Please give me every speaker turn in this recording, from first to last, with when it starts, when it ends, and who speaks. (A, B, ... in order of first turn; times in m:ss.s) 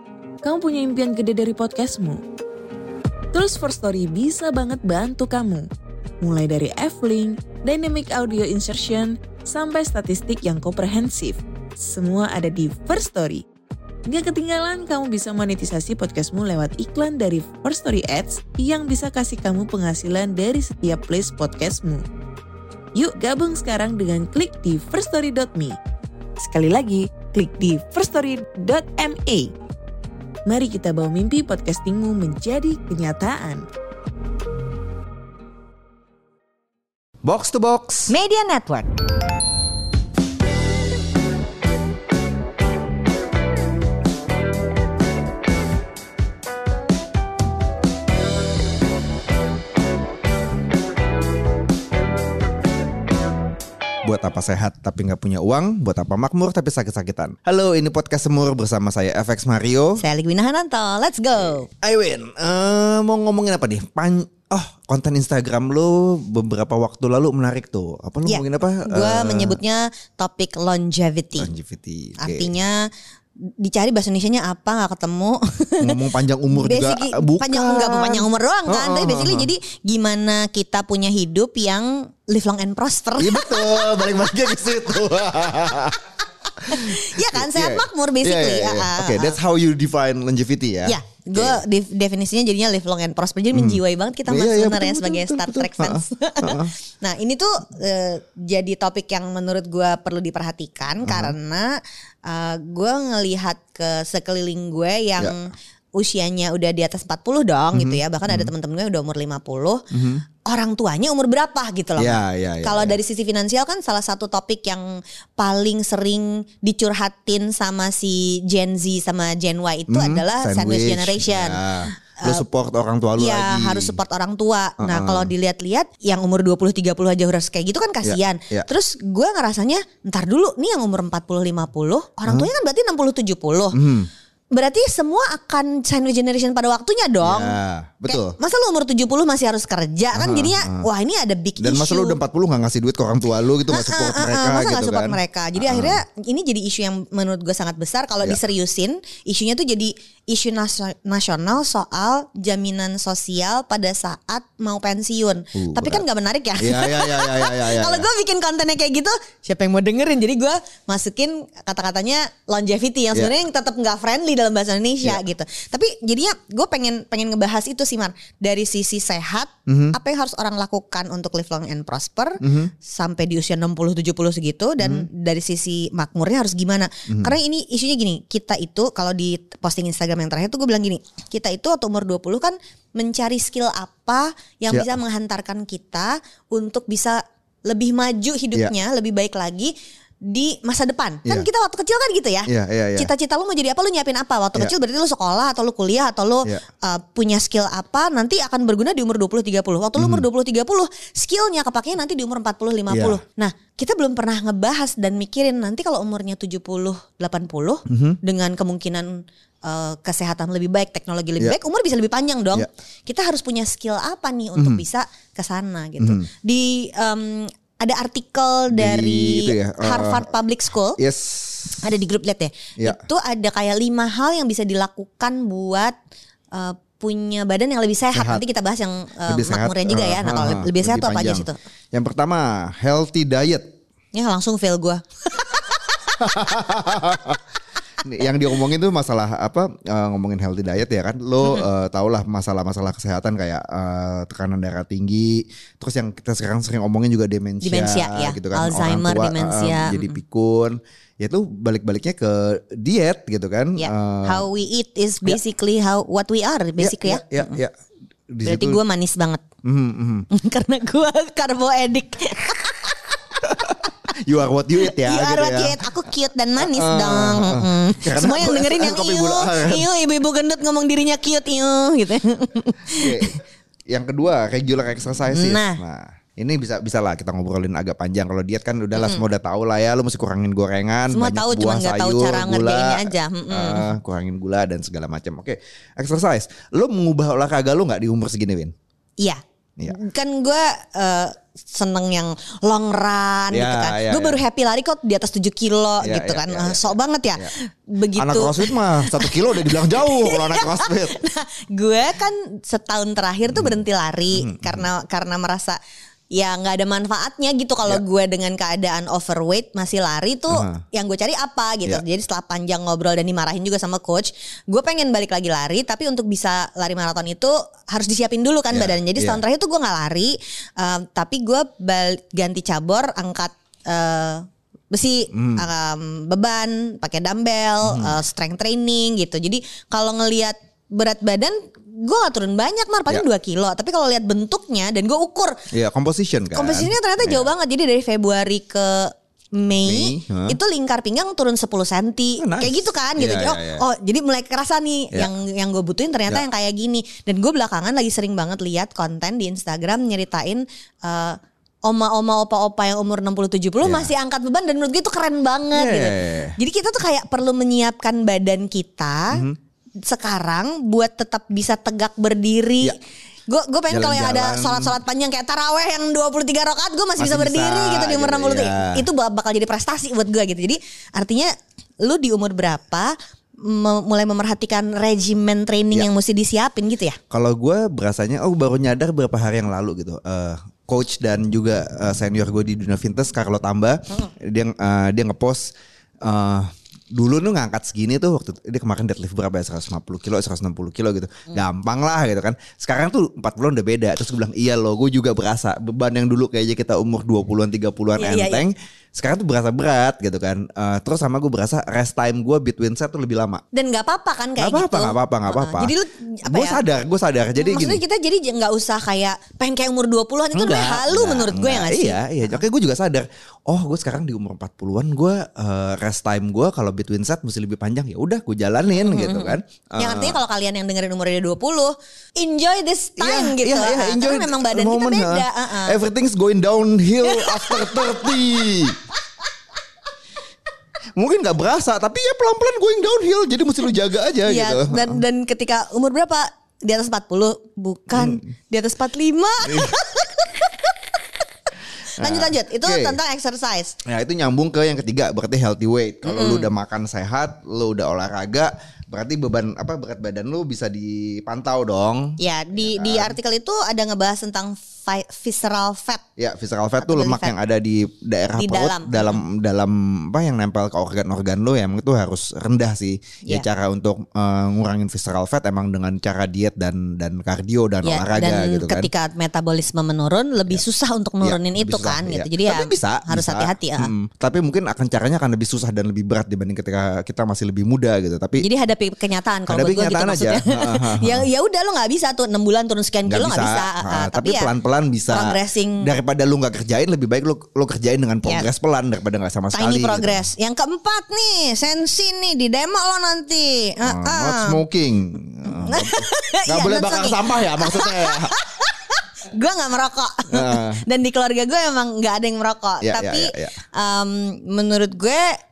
0:00.4-0:02.2 A
0:03.3-0:05.7 A
0:06.2-0:13.4 A
0:14.1-0:22.0 A
0:23.0-0:25.8 A
0:26.4-0:29.5 A
0:30.5-0:33.6 A
0:37.2-0:38.1 B
0:38.1-0:38.9 C
0:54.0-1:00.0 B
1:00.0-1:01.7 C
1:01.7-1:09.6 B
1:08.3-1:11.5 C
1:11.4-1:12.5 B
1:12.2-1:12.9 C
1:13.6-1:24.2 C
1:15.8-1:19.5 B
1:23.2-1:26.0 B
1:26.6-1:31.6 B
1:26.7-1:29.4 C
1:30.8-1:49.8 C
1:33.5-1:36.7 B
1:41.0-1:41.4 B
1:47.7-1:48.5 B
1:49.9-1:50.2 B
1:50.5-2:02.4 C
1:52.0-1:53.0 B
1:59.9-2:04.0 B
2:03.2-2:13.8 C
2:04.8-2:05.3 B
2:08.0-2:08.7 B
2:13.7-2:14.1 B
2:14.5-2:17.6 C
2:17.2-2:18.4 B
2:18.1-2:22.2 C
2:20.1-2:20.9 B
2:21.6-2:26.0 B
2:23.7-3:09.7 C
2:35.6-2:36.0 B
2:36.6-2:38.1 B
2:49.7-2:50.0 B
2:52.4-2:52.7 B
2:54.8-2:55.1 B
2:57.1-2:57.3 B
3:10.3-3:41.0 C
3:12.5-3:13.1 B
3:20.0-3:20.2 B
3:22.9-3:23.2 B
3:27.9-3:28.2 B
3:34.6-3:34.8 B
3:36.0-3:36.3 B
3:38.7-3:40.3 B
3:41.0-3:41.8 B
3:41.8-3:46.0 C
3:46.5-3:51.6 C
3:48.1-3:48.4 B
3:49.3-3:53.6 B
3:54.1-3:56.0 C
3:56.2-3:57.4 B
3:58.0-4:14.5 B
4:07.6-4:10.2 C
4:13.8-4:17.6 C
4:16.8-4:17.7 B
4:18.3-4:18.8 B
4:18.4-4:19.4 C
4:19.6-4:20.3 B
4:20.3-4:23.2 C
4:23.4-4:25.8 B
4:24.8-4:33.4 C
4:26.6-4:29.9 B
4:33.0-4:33.4 B
4:33.9-4:48.7 B
4:35.3-4:35.8 C
4:39.0-4:39.2 C
4:41.1-4:43.9 C
4:49.2-5:05.8 C
4:53.5-4:54.4 B
4:56.0-4:57.5 B
4:58.1-5:01.1 B
5:03.5-5:03.8 B
5:04.3-5:04.9 B
5:06.3-5:35.6 C
5:10.5-5:10.8 B
5:18.7-5:19.4 B
5:25.3-5:25.7 B
5:27.8-5:28.2 B
5:35.7-5:37.5 B
5:36.5-5:59.4 C
5:39.8-5:40.6 B
5:42.4-5:43.8 B
5:53.8-5:54.1 B
5:55.7-5:56.6 B
5:59.3-5:59.6 B
6:00.1-6:11.5 C
6:03.9-6:05.0 B
6:07.2-6:09.1 B
6:12.0-6:17.2 C
6:17.3-6:25.7 B
6:26.2-6:43.6 B
6:38.2-6:38.7 C
6:43.7-6:46.8 C
6:44.6-6:46.0 B
6:46.5-6:48.0 B
6:47.6-6:52.2 C
6:50.5-7:00.4 B
6:58.9-7:06.0 C
7:03.2-7:09.0 B
7:07.2-7:08.7 C
7:11.2-7:15.2 B
7:14.5-7:20.9 C
7:18.1-7:18.4 B
7:19.6-7:19.9 B
7:22.2-7:24.0 C
7:22.2-7:23.2 B
7:24.1-7:33.4 B
7:26.2-7:26.7 C
7:32.4-7:36.2 C
7:36.4-7:49.1 B
7:37.0-7:37.6 C
7:38.6-7:39.4 C
7:48.0-7:54.1 C
7:51.4-7:58.6 B
7:58.6-8:04.7 C
7:59.7-8:01.5 B
8:03.3-8:10.4 B
8:05.3-8:06.1 C
8:09.7-8:14.8 C
8:14.0-8:18.5 B
8:15.8-8:25.6 C
8:20.5-8:21.0 B
8:23.0-8:23.8 B